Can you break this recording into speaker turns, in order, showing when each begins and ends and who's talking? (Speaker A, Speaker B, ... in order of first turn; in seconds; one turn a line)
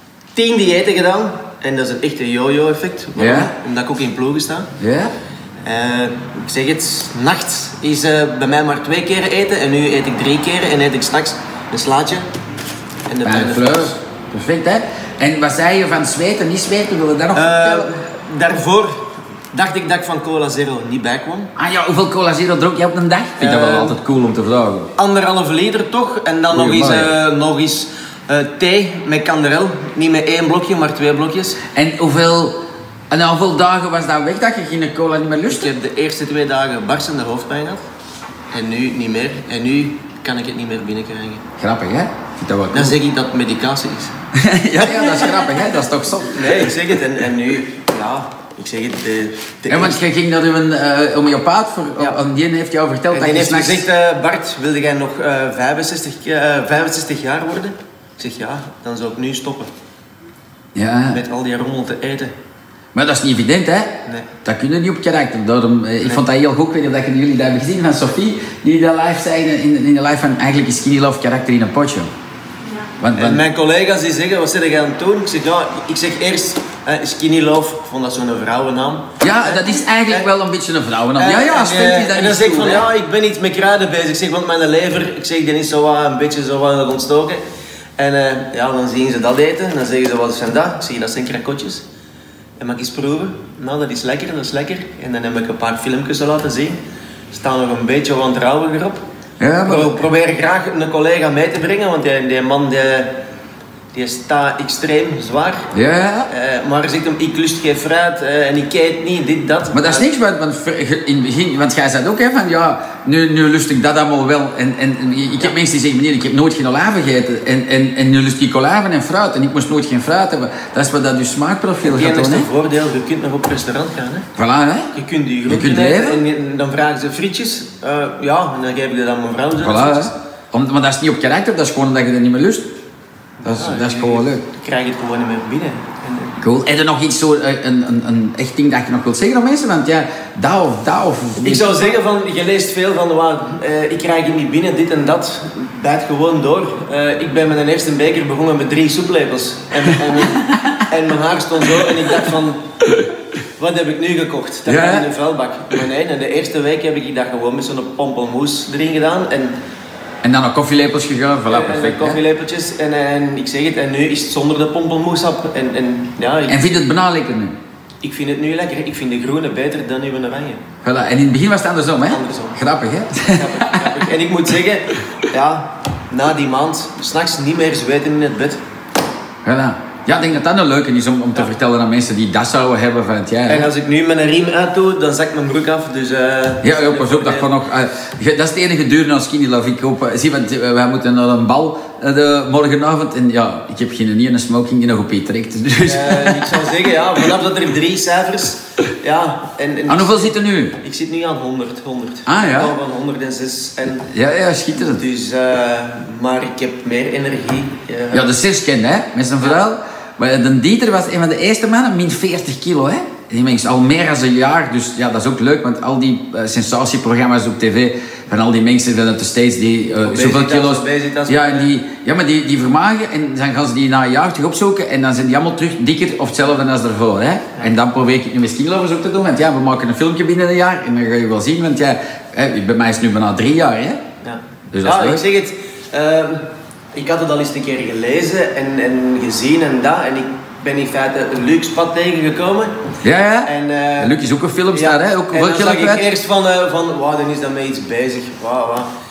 Speaker A: 0.3-4.7
Speaker B: 3.2-3.5
Speaker B: 4.8-5.1
Speaker A: 5.6-12.2
Speaker A: 13.1-13.9
Speaker B: 13.2-17.9
Speaker A: 17.3-19.0
Speaker A: 19.5-21.5
Speaker B: 21.6-24.9
Speaker A: 23.4-24.0
Speaker A: 24.9-31.6
Speaker B: 26.5-27.1
Speaker B: 31.7-32.6
Speaker B: 33.1-35.7
Speaker A: 35.5-37.8
Speaker A: 38.5-41.4
Speaker B: 41.6-43.0
Speaker A: 42.7-44.1
Speaker B: 44.3-47.0
Speaker A: 46.3-50.0
Speaker B: 49.7-53.9
Speaker A: 53.1-59.7
Speaker B: 60.7-61.2
Speaker A: 61.1-62.3
Speaker B: 62.9-72.1
Speaker B: 73.0-73.4
Speaker A: 73.1-80.2
Speaker B: 79.2-82.9
Speaker A: 81.2-87.4
Speaker A: 88.0-91.8
Speaker A: 92.6-96.8
Speaker A: 97.3-99.0
Speaker B: 99.4-100.0
Speaker A: 99.7-103.1
Speaker A: 103.9-105.7
Speaker B: 105.7-106.3
Speaker A: 106.3-110.1
Speaker B: 109.7-122.5
Speaker A: 121.8-124.2
Speaker B: 124.4-124.9
Speaker A: 124.9-130.1
Speaker B: 125.5-126.2
Speaker B: 129.6-132.7
Speaker A: 133.4-136.4
Speaker B: 133.4-134.4
Speaker B: 136.4-141.9
Speaker A: 141.4-152.6
Speaker A: 153.6-159.6
Speaker B: 154.7-155.1
Speaker B: 160.2-162.2
Speaker A: 161.5-166.6
Speaker B: 166.5-167.6
Speaker A: 168.0-170.6
Speaker B: 170.8-173.9
Speaker A: 172.1-172.6
Speaker A: 173.2-178.6
Speaker B: 179.4-183.7
Speaker A: 183.5-187.5
Speaker B: 186.6-196.6
Speaker A: 195.8-204.1
Speaker B: 199.9-200.8
Speaker B: 202.2-202.8
Speaker B: 204.0-205.0
Speaker A: 204.8-208.3
Speaker B: 208.1-234.0
Speaker A: 220.0-221.7
Speaker A: 234.2-242.8
Speaker B: 234.7-235.2
Speaker B: 243.0-246.1
Speaker A: 243.4-244.1
Speaker A: 244.7-248.9